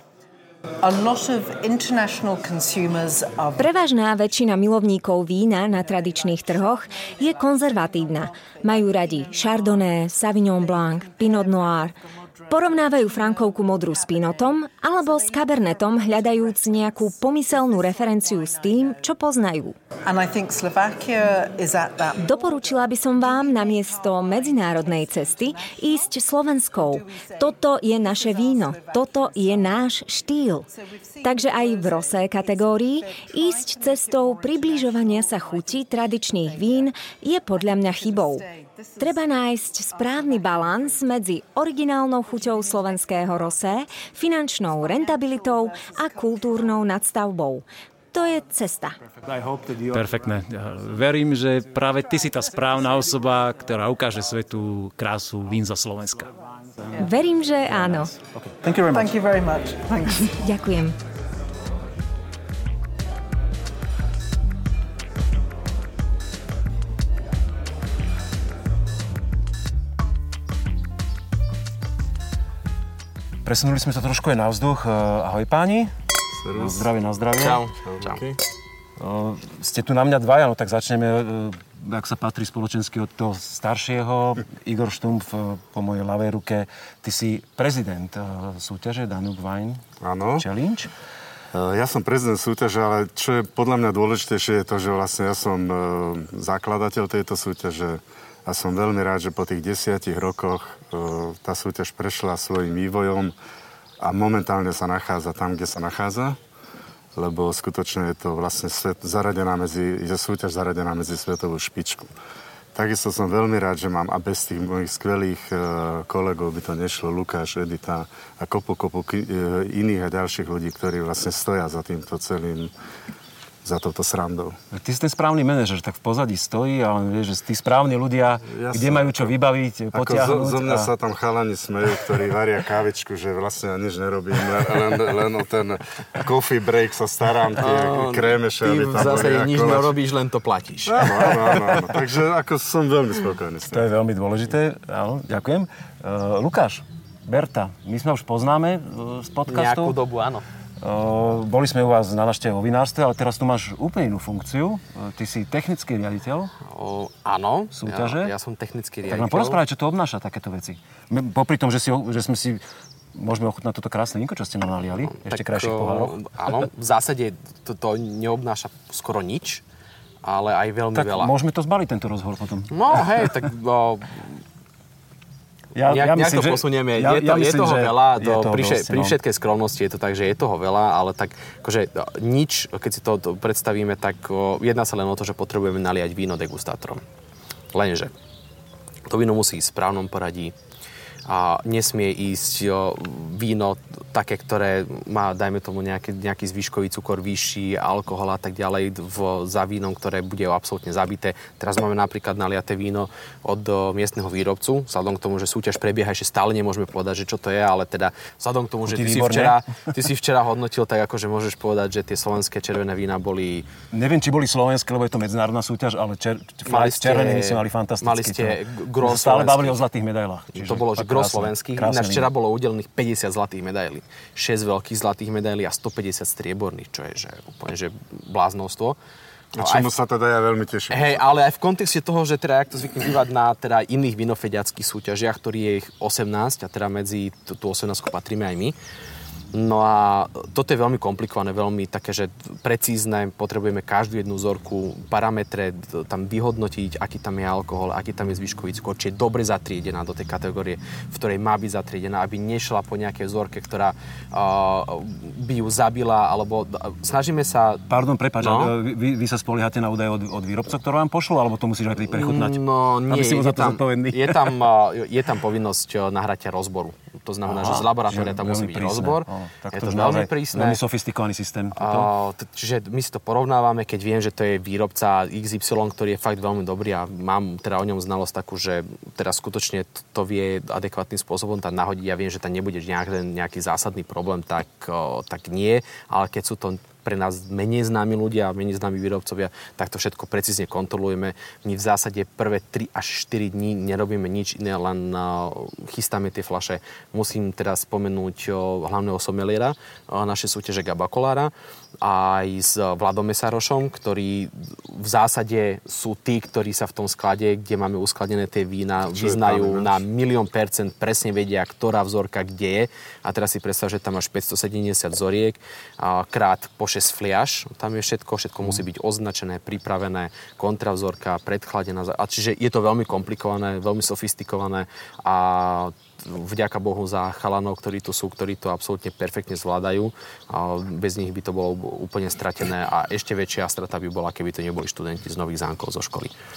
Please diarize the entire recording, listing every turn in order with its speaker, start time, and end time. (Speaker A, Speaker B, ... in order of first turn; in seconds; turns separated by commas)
Speaker A: 0.8-3.7, Speaker B: 3.6-11.9, Speaker A: 5.6-19.0, Speaker B: 12.5-19.7, Speaker A: 20.0-29.9, Speaker B: 22.2-30.6, Speaker A: 30.7-36.9, Speaker B: 31.2-38.5, Speaker A: 37.5-41.1, Speaker B: 39.0-49.0, Speaker A: 42.3-44.0, Speaker A: 44.6-47.0, Speaker C: 49.3-50.1, Speaker D: 49.9-56.3, Speaker B: 57.0-58.1, Speaker C: 58.3-59.1, Speaker A: 58.9-60.3, Speaker B: 60.0-60.9, Speaker C: 73.4-75.9, Speaker E: 76.3-76.9, Speaker C: 76.5-77.6, Speaker F: 77.4-78.2, Speaker E: 77.8-78.4, Speaker C: 79.0-89.8, Speaker E: 90.0-90.4, Speaker C: 90.4-90.9, Speaker E: 91.5-103.3, Speaker E: 104.0-106.4, Speaker E: 107.2-112.1, Speaker E: 112.7-122.7, Speaker E: 123.6-124.5, Speaker C: 124.7-130.9, Speaker E: 128.5-129.2, Speaker E: 129.9-139.9, Speaker F: 137.6-141.8, Speaker E: 140.9-143.8, Speaker C: 143.7-149.9, Speaker F: 149.5-150.4, Speaker C: 150.8-156.5, Speaker F: 156.6-159.6, Speaker C: 157.7-158.3, Speaker C: 159.1-162.6, Speaker C: 163.1-166.2, Speaker F: 165.1-169.6, Speaker F: 170.2-171.3, Speaker C: 170.9-172.7, Speaker F: 172.7-174.4, Speaker C: 175.8-179.2, Speaker F: 175.8-187.0, Speaker F: 187.7-188.1, Speaker F: 189.1-190.5, Speaker F: 191.3-213.7, Speaker C: 208.8-209.6, Speaker C: 213.9-222.3, Speaker F: 216.7-219.8, Speaker F: 220.5-229.0, Speaker E: 229.5-231.3, Speaker F: 229.6-229.9, Speaker F: 230.9-238.8, Speaker F: 239.5-257.9, Speaker C: 257.9-264.6, Speaker F: 258.4-258.7, Speaker F: 262.1-270.8, Speaker C: 267.4-272.1, Speaker F: 271.7-336.3, Speaker E: 309.0-310.0